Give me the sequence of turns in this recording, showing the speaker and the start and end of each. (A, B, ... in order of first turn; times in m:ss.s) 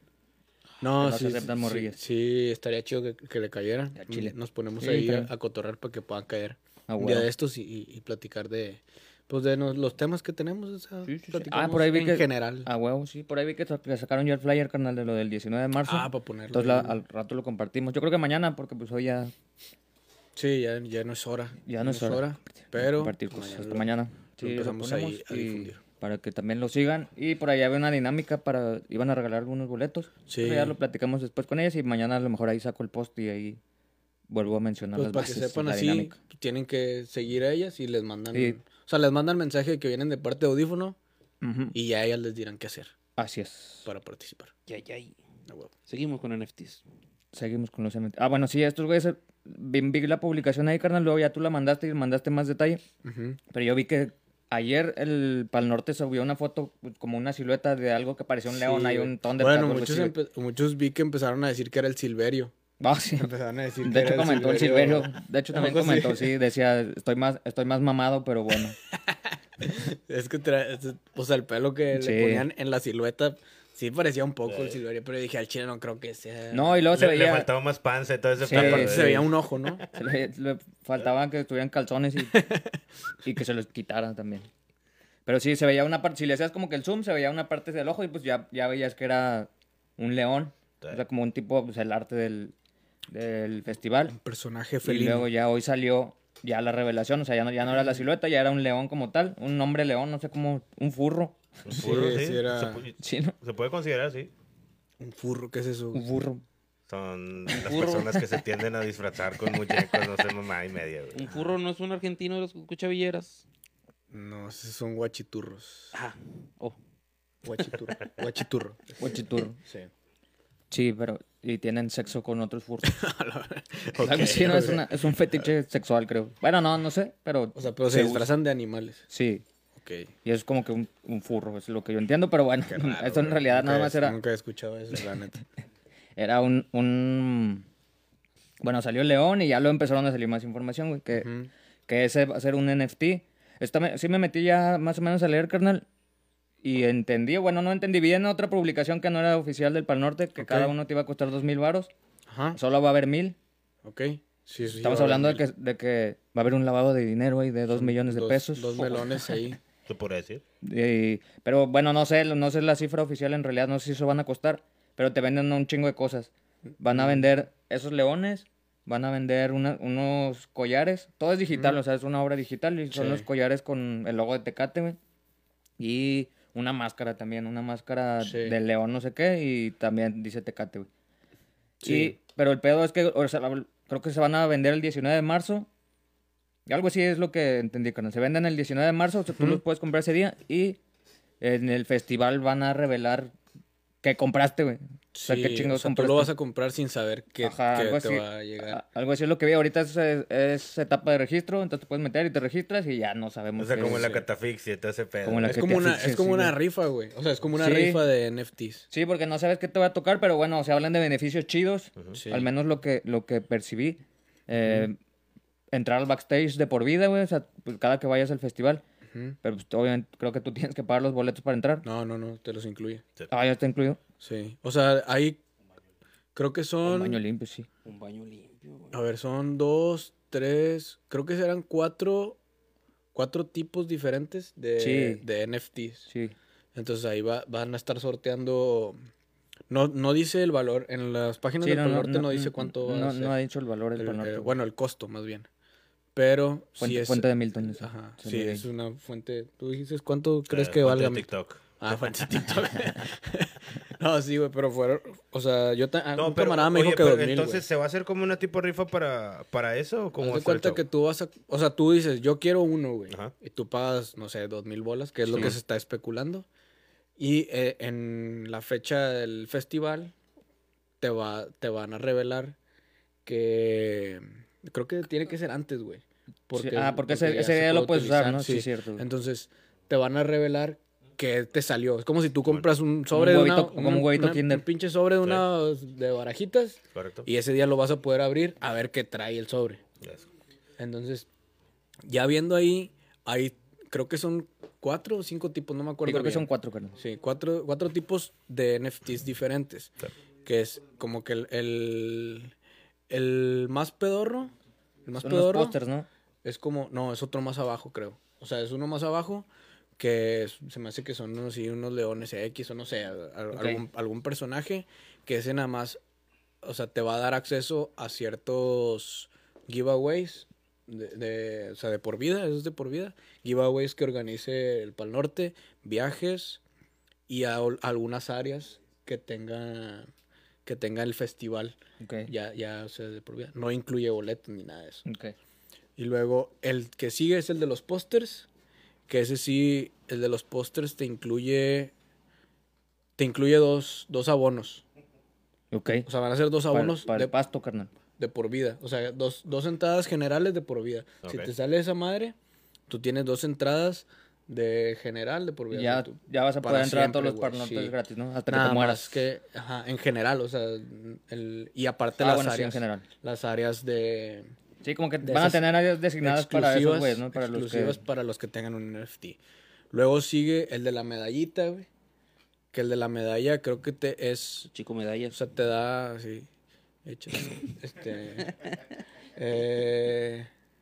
0:00.8-0:12.7 A
0:01.0-0:02.0 B
0:04.0-0:05.3 B
0:06.9-0:07.3 B
0:11.1-0:19.3 B
0:15.8-0:17.0 A
0:20.4-0:25.8 A
0:21.7-0:33.6 B
0:30.3-0:30.8 A
0:34.3-0:36.2 B
0:35.0-0:41.0 A
0:41.4-0:41.8 B
0:41.7-0:42.9 A
0:43.2-0:43.9 B
0:43.9-0:44.5 A
0:44.7-0:45.2 C
0:45.9-0:46.8 C
0:47.3-0:52.8 B
0:53.0-0:53.4 A
0:53.5-1:00.1 B
0:58.5-1:02.5 A
1:02.8-1:03.3 B
1:03.2-1:06.4 A
1:03.8-1:08.8 B
1:08.9-1:16.9 A
1:11.9-1:12.5 B
1:14.5-1:14.8 D
1:16.5-1:17.5 B
1:16.9-1:19.3 D
1:18.4-1:19.3 B
1:18.5-1:19.8 A
1:19.9-1:22.5 B
1:22.3-1:22.7 A
1:23.2-1:24.5 B
1:25.3-1:32.5 B
1:33.1-1:34.2 B
1:34.1-1:35.3 A
1:34.8-1:41.4 B
1:41.6-1:44.3 D
1:41.7-1:42.8 A
1:43.0-1:43.4 B
1:45.0-1:46.0 A
1:45.9-1:46.4 B
1:46.9-1:51.4 D
1:47.5-1:48.1 C
1:51.1-1:53.4 C
1:54.1-1:56.0 A
1:55.9-1:56.8 C
1:57.4-1:59.9 A
1:59.0-1:59.6 B
2:00.7-2:03.0 B
2:02.8-2:05.5 A
2:04.0-2:08.3 B
2:07.6-2:09.0 A
2:09.1-2:09.5 B
2:09.8-2:10.1 A
2:10.2-2:14.2 B
2:12.7-2:15.4 A
2:16.2-2:17.6 B
2:18.6-2:21.3 B
2:21.1-2:21.5 A
2:21.9-2:25.9 B
2:26.6-2:31.9 B
2:30.4-2:30.7 A
2:32.3-2:32.6 A
2:32.6-2:33.4 B
2:33.8-2:35.4 A
2:34.8-2:39.4 B
2:37.7-2:39.6 A
2:39.9-2:40.4 D
2:40.6-2:55.0 B
2:46.9-2:47.3 A
2:51.5-2:51.8 A
2:52.9-2:53.3 A
2:55.8-3:00.9 B
2:58.2-2:58.6 A
3:01.8-3:02.2 A
3:01.8-3:05.7 B
3:06.7-3:10.8 B
3:11.4-3:13.3 B
3:14.0-3:16.3 B
3:15.1-3:18.8 A
3:17.4-3:24.1 B
3:23.6-3:25.6 D
3:23.8-3:24.2 A
3:25.2-3:26.6 B
3:25.4-3:28.9 A
3:27.6-3:28.0 B
3:28.9-3:35.0 B
3:32.1-3:32.5 A
3:34.6-3:34.9 A
3:35.7-3:38.8 B
3:39.1-3:39.4 A
3:39.4-3:41.8 B
3:41.8-3:43.0 A
3:43.3-3:44.0 B
3:44.2-3:45.4 A
3:46.4-3:47.2 A
3:46.8-3:47.7 B
3:47.8-3:49.0 C
3:48.9-3:52.4 A
3:53.1-3:56.1 A
3:54.8-3:55.2 B
3:56.1-3:56.3 B
3:56.8-3:59.0 A
3:59.7-4:03.4 A
4:01.6-4:04.5 B
4:04.0-4:05.5 A
4:06.2-4:17.7 A
4:06.8-4:08.7 B
4:10.5-4:12.0 D
4:16.2-4:20.8 D
4:20.2-4:26.5 A
4:27.2-4:30.1 A
4:31.0-4:32.6 A
4:33.2-4:49.8 A
4:36.5-4:39.1 B
4:43.1-4:44.6 B
4:47.0-4:47.3 D
4:50.8-4:51.3 A
4:52.0-4:59.9 A
4:56.0-4:57.0 B
5:00.4-5:02.5 A
5:03.1-5:04.5 A
5:05.1-5:05.8 A
5:05.2-5:06.1 B
5:06.4-5:16.0 A
5:13.5-5:13.8 B
5:16.6-5:26.6 A
5:27.3-5:30.1 A
5:30.6-5:31.8 A
5:32.0-5:32.3 B
5:32.3-5:35.0 A
5:35.1-5:35.4 B
5:36.0-5:38.5 A
5:39.1-5:41.9 A
5:43.2-5:44.8 A
5:45.7-5:46.1 B
5:46.1-5:47.3 A
5:46.7-5:47.9 B
5:48.2-5:52.4 A
5:51.2-5:51.5 D
5:52.9-5:58.0 A
5:55.7-5:59.2 B
5:58.5-6:04.5 A
6:02.2-6:03.1 B
6:04.8-6:08.0 B
6:05.2-6:05.7 A
6:06.2-6:09.4 A
6:09.9-6:11.9 A
6:12.7-6:14.7 A
6:14.7-6:15.4 C
6:15.3-6:16.5 A
6:17.0-6:18.5 A
6:19.4-6:20.5 A